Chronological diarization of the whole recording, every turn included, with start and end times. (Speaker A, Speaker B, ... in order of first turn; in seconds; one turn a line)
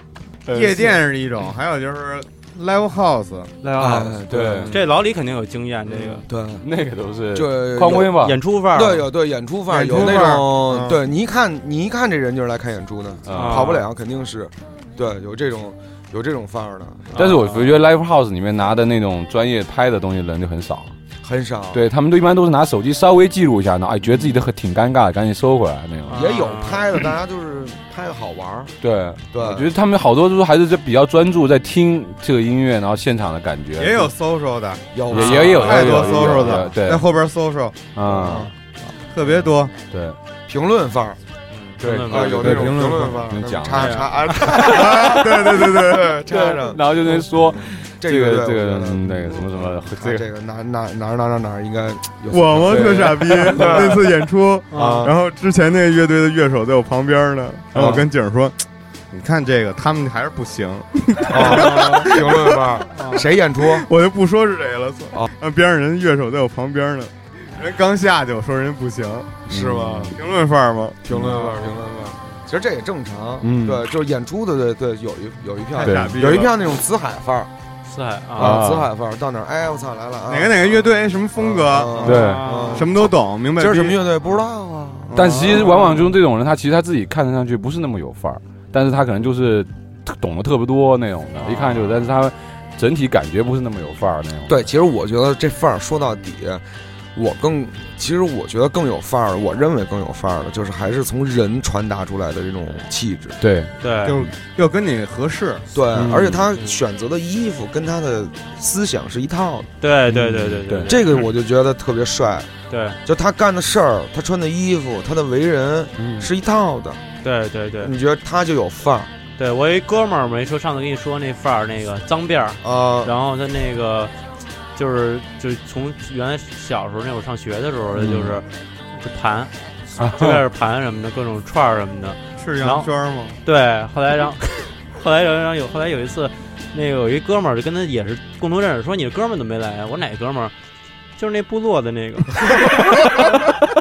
Speaker A: 0.5-0.9
Speaker B: 0.5-3.5
Speaker C: 3.6-6.2
Speaker D: 3.8-4.9
Speaker A: 4.3-4.8
Speaker D: 5.9-6.6
Speaker A: 6.6-8.4
Speaker D: 7.3-17.1
Speaker C: 8.2-9.1
Speaker B: 9.7-11.0
Speaker A: 13.3-13.8
Speaker C: 13.3-13.8
Speaker C: 17.1-17.8
Speaker A: 17.2-20.9
Speaker D: 21.2-21.8
Speaker A: 21.7-26.2
Speaker D: 24.1-24.4
Speaker C: 26.1-26.8
Speaker D: 26.1-28.7
Speaker A: 28.8-34.1
Speaker D: 29.3-29.7
Speaker B: 33.8-34.9
Speaker D: 34.9-36.7
Speaker A: 35.1-37.0
Speaker C: 35.1-35.8
Speaker B: 35.6-37.9
Speaker A: 38.0-38.5
Speaker D: 38.0-38.5
Speaker B: 39.1-39.7
Speaker A: 39.9-40.2
Speaker D: 40.5-41.2
Speaker C: 41.5-42.5
Speaker A: 41.8-45.0
Speaker D: 42.1-54.1
Speaker B: 42.4-43.2
Speaker C: 43.8-44.1
Speaker B: 44.6-46.1
Speaker A: 46.3-50.2
Speaker B: 52.3-58.6
Speaker A: 52.7-53.9
Speaker C: 54.7-55.1
Speaker D: 54.7-55.1
Speaker D: 57.8-58.0
Speaker B: 59.1-62.7
Speaker D: 61.3-63.9
Speaker C: 61.4-62.1
Speaker C: 62.9-63.2
Speaker B: 63.6-69.4
Speaker A: 69.5-70.2
Speaker D: 69.5-70.2
Speaker B: 70.2-71.5
Speaker D: 71.1-77.5
Speaker A: 71.1-71.4
Speaker A: 73.4-73.9
Speaker B: 75.8-76.6
Speaker A: 75.8-76.4
Speaker C: 77.8-78.6
Speaker D: 78.4-80.8
Speaker A: 78.4-78.9
Speaker B: 80.3-84.0
Speaker D: 81.4-85.8
Speaker A: 82.0-82.6
Speaker C: 82.0-82.9
Speaker B: 85.1-85.7
Speaker A: 85.1-94.7
Speaker C: 85.3-85.7
Speaker C: 91.4-91.9
Speaker D: 94.5-96.6
Speaker D: 97.2-103.4
Speaker A: 103.4-103.7
Speaker C: 103.8-104.2
Speaker B: 104.0-105.7
Speaker D: 105.7-109.7
Speaker A: 105.9-106.5
Speaker C: 109.8-111.0
Speaker A: 110.1-111.0
Speaker D: 110.9-112.5
Speaker C: 112.7-113.0
Speaker D: 113.0-117.0
Speaker A: 116.0-116.2
Speaker C: 117.2-117.9
Speaker D: 117.8-119.1
Speaker C: 119.4-124.1
Speaker D: 122.6-123.1
Speaker C: 124.8-132.9
Speaker A: 128.0-128.4
Speaker A: 130.0-130.4
Speaker B: 132.4-133.4
Speaker C: 133.4-140.5
Speaker C: 141.2-142.6